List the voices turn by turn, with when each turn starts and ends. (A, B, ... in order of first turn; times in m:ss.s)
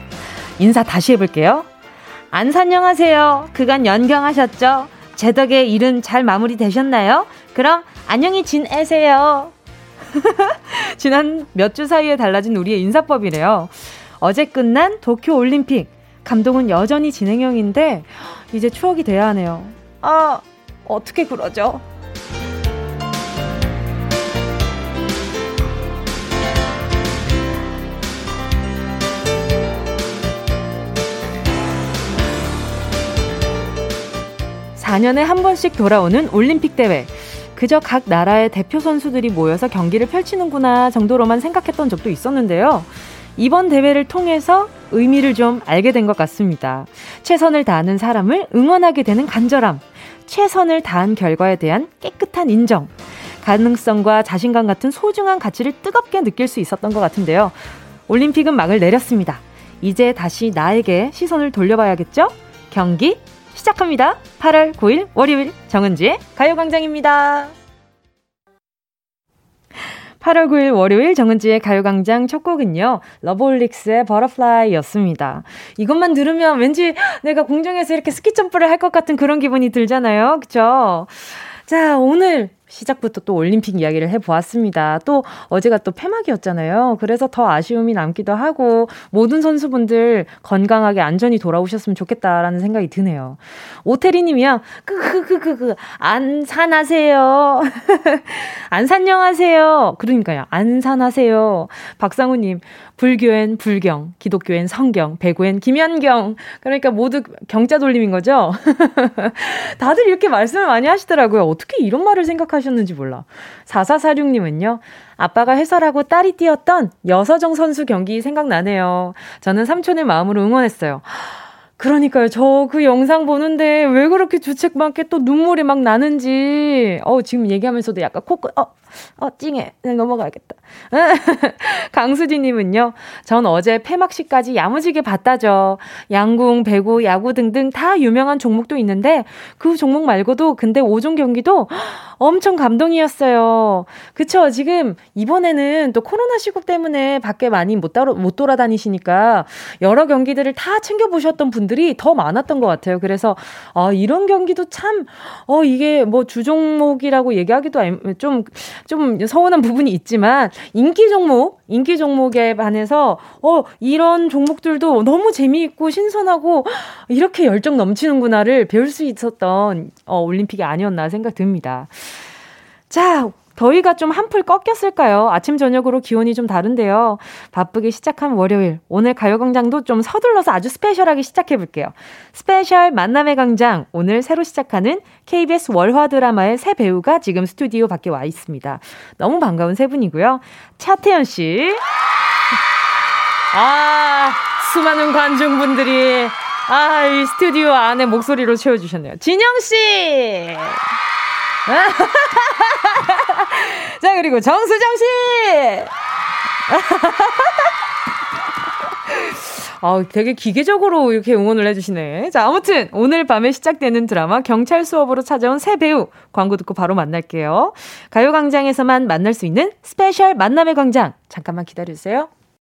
0:00.6-0:01.7 A
0:02.3-0:09.5 A
0:10.1-0:21.8 A
0:34.8-0:57.6 A
0:58.1-1:07.5 A
1:10.2-2:51.9 A
2:52.9-3:11.8 A
3:13.5-3:20.8 A
3:21.6-3:25.9 A
3:26.7-3:27.7 A
3:29.1-3:42.3 A